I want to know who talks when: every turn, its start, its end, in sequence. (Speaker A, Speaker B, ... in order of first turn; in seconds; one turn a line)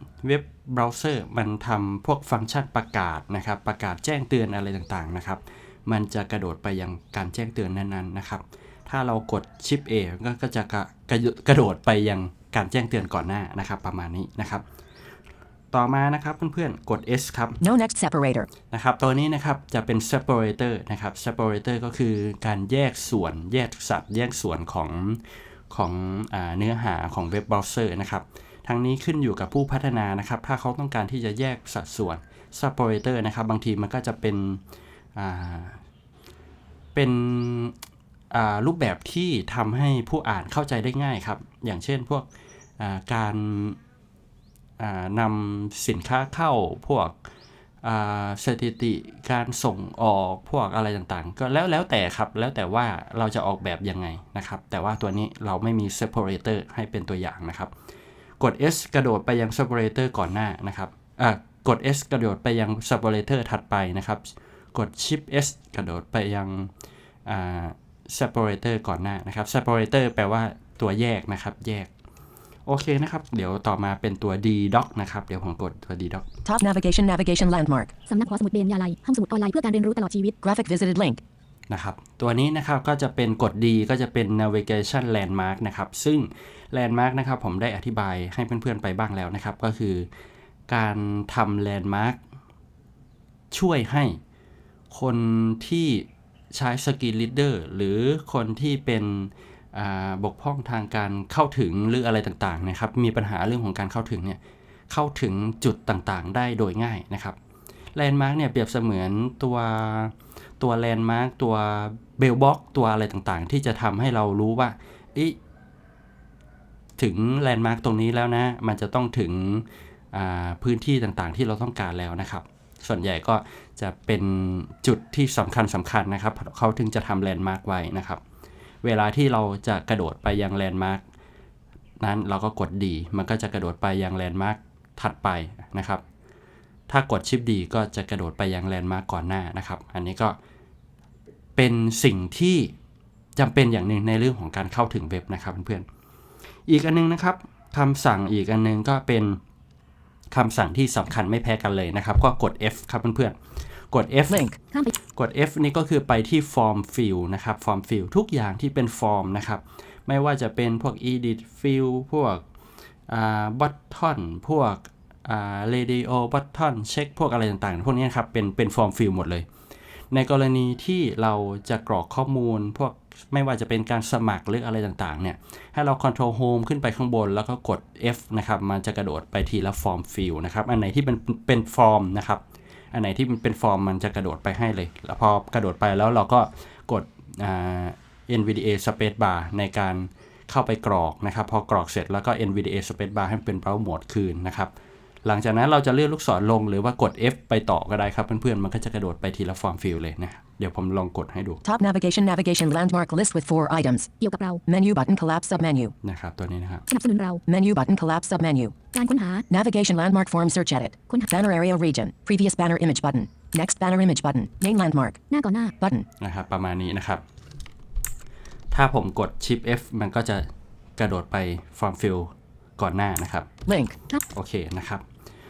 Speaker A: 0.2-14.6
Speaker A: 15.7-17.6
Speaker B: 17.6-18.5
Speaker A: 18.7-34.6
Speaker A: 35.1-35.8
Speaker A: 36.9-37.8
Speaker A: 38.3-43.8
Speaker A: 44.8-47.2
Speaker A: 47.8-57.7
Speaker A: 58.4-66.7
Speaker A: 67.2-71.9
Speaker A: 72.7-76.3
Speaker B: 76.5-77.9
Speaker C: 78.1-80.4
Speaker B: 80.4-81.2
Speaker A: 81.7-90.1
Speaker A: 90.7-92.2
Speaker A: 93.5-94.2
Speaker A: 94.9-107.4
Speaker A: 107.9-115.4
Speaker A: 117.0-128.2
Speaker A: 128.8-131.0
Speaker A: 132.0-136.0
Speaker A: 136.9-140.4
Speaker A: 141.6-142.7
Speaker A: 143.4-145.9
Speaker A: 146.7-149.4
Speaker A: 150.3-154.5
Speaker B: 154.3-154.6
Speaker C: 154.7-154.9
Speaker A: 155.0-162.4
Speaker A: 163.1-169.5
Speaker A: 170.1-194.7
Speaker A: 195.2-201.6
Speaker B: 201.6-204.1
Speaker C: 204.2-204.6
Speaker B: 204.7-205.9
Speaker A: 206.0-206.8
Speaker C: 206.9-207.4
Speaker B: 207.5-208.7
Speaker C: 208.9-209.5
Speaker B: 209.5-215.2
Speaker C: 215.3-215.8
Speaker B: 215.8-216.1
Speaker A: 216.2-217.2
Speaker A: 218.7-223.5
Speaker B: 223.7-223.9
Speaker A: 224.3-225.0